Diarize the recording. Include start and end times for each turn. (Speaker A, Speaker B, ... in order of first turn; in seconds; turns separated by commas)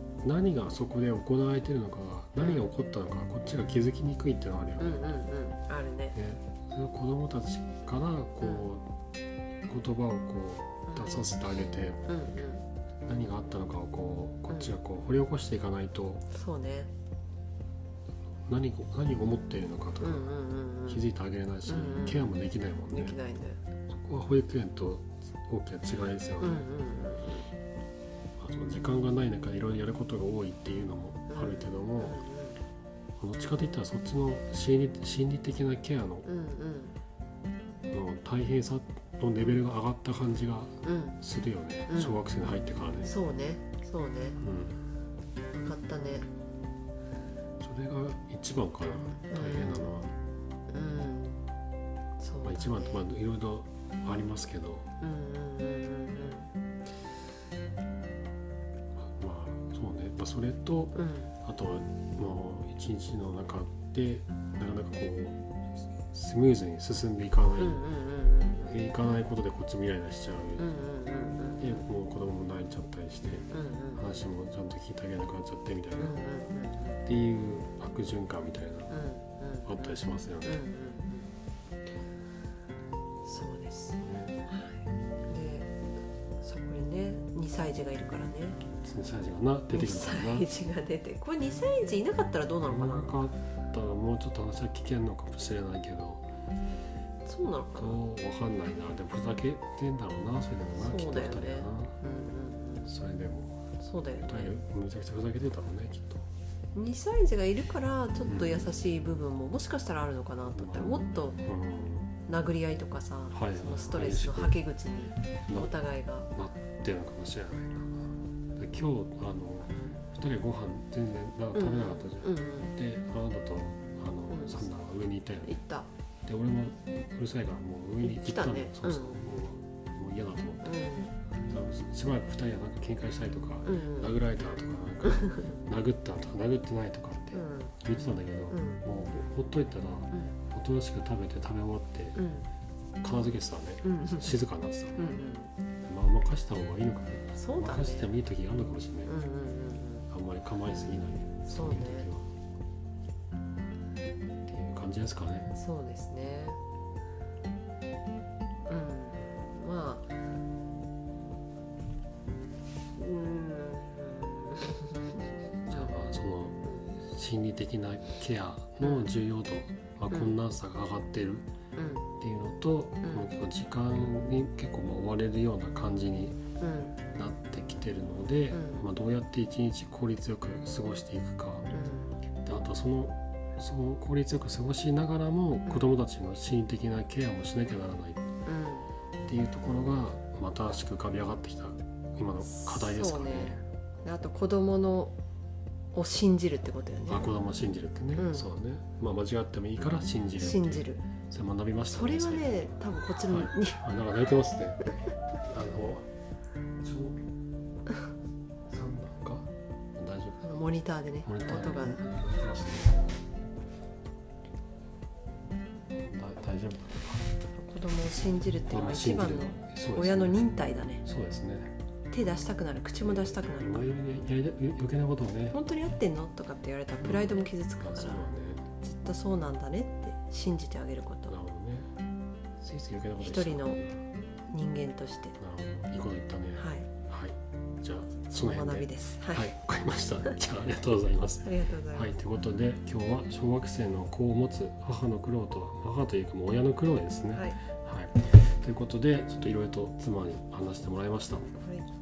Speaker A: 0.2-5.1, Speaker B: 4.8-6.2, Speaker A: 6.1-8.9, Speaker A: 9.7-12.0, Speaker B: 10.9-11.2, Speaker B: 12.1-12.6, Speaker A: 13.1-16.2, Speaker B: 16.3-16.9, Speaker A: 18.5-20.3, Speaker B: 20.0-21.0, Speaker A: 20.9-23.2, Speaker B: 21.6-22.3, Speaker B: 22.9-23.6, Speaker A: 23.9-26.6, Speaker B: 26.4-27.5, Speaker A: 28.4-32.2, Speaker B: 31.3-32.6, Speaker A: 33.2-36.3, Speaker B: 36.2-37.0, Speaker A: 37.9-43.1, Speaker B: 40.8-41.2, Speaker B: 41.9-42.3, Speaker B: 43.0-44.4, Speaker A: 44.4-44.8, Speaker B: 45.5-46.3, Speaker A: 47.6-50.1, Speaker B: 49.1-49.9, Speaker B: 50.7-51.4, Speaker B: 52.2-53.0, Speaker A: 52.4-54.9, Speaker B: 55.0-56.5, Speaker A: 59.0-65.4, Speaker B: 60.9-61.3, Speaker A: 66.0-67.8, Speaker B: 67.6-68.8, Speaker A: 68.7-70.7, Speaker B: 70.6-71.8, Speaker A: 71.6-76.2, Speaker B: 73.5-74.2, Speaker B: 76.0-77.0, Speaker A: 77.0-79.0, Speaker B: 78.9-81.3, Speaker A: 79.6-80.6, Speaker B: 83.2-85.7, Speaker A: 84.0-84.4, Speaker B: 86.4-88.6, Speaker A: 88.8-90.5, Speaker B: 89.7-93.2, Speaker A: 92.6-96.2, Speaker B: 97.2-98.0, Speaker A: 97.7-102.0, Speaker B: 100.7-102.9, Speaker A: 102.9-103.6, Speaker B: 103.8-104.6, Speaker A: 104.2-106.2, Speaker B: 106.7-111.4, Speaker A: 108.2-108.6, Speaker A: 110.5-112.1, Speaker B: 112.2-116.3, Speaker A: 113.3-114.6, Speaker A: 116.3-125.6, Speaker B: 121.5-122.7, Speaker B: 124.3-124.6, Speaker B: 125.5-125.9, Speaker A: 126.2-130.8, Speaker B: 128.0-129.2, Speaker B: 130.6-131.1, Speaker A: 131.4-142.2, Speaker B: 133.7-134.1, Speaker B: 135.0-135.5, Speaker B: 137.3-137.7, Speaker B: 138.5-138.8, Speaker B: 142.2-142.5, Speaker A: 143.0-145.1, Speaker B: 143.8-144.4, Speaker B: 145.0-145.5, Speaker A: 145.8-149.1, Speaker B: 147.3-148.1, Speaker B: 149.1-150.1, Speaker A: 150.1-152.3, Speaker B: 151.4-152.1, Speaker A: 154.4-155.5, Speaker B: 155.5-156.6, Speaker B: 158.7-160.1, Speaker B: 163.0-165.9, Speaker A: 165.7-171.5, Speaker B: 168.8-169.1, Speaker B: 171.8-172.1, Speaker A: 172.2-176.4, Speaker B: 173.0-173.3, Speaker B: 176.6-177.0, Speaker A: 177.1-181.7, Speaker B: 178.5-178.9, Speaker B: 181.7-182.2, Speaker A: 182.4-188.2, Speaker B: 188.4-188.9, Speaker A: 189.2-193.6, Speaker B: 192.4-195.2, Speaker B: 195.9-197.3, Speaker A: 197.1-204.8, Speaker B: 198.1-198.5, Speaker B: 200.4-201.1, Speaker B: 201.9-203.8, Speaker A: 205.5-206.1, Speaker A: 206.8-207.2, Speaker A: 208.7-210.5, Speaker B: 210.4-212.0, Speaker A: 211.2-213.2, Speaker A: 216.0-217.2, Speaker B: 217.6-221.0, Speaker A: 218.7-220.5, Speaker A: 221.0-221.7, Speaker B: 222.1-223.9, Speaker A: 223.0-225.6, Speaker B: 225.5-228.2, Speaker A: 227.0-228.6, Speaker B: 228.8-231.3, Speaker A: 231.3-231.9, Speaker A: 232.6-234.0, Speaker B: 233.2-233.8, Speaker B: 234.5-235.3, Speaker A: 235.4-251.5, Speaker B: 236.6-236.9, Speaker B: 238.3-239.5, Speaker B: 241.4-242.1, Speaker B: 251.6-251.8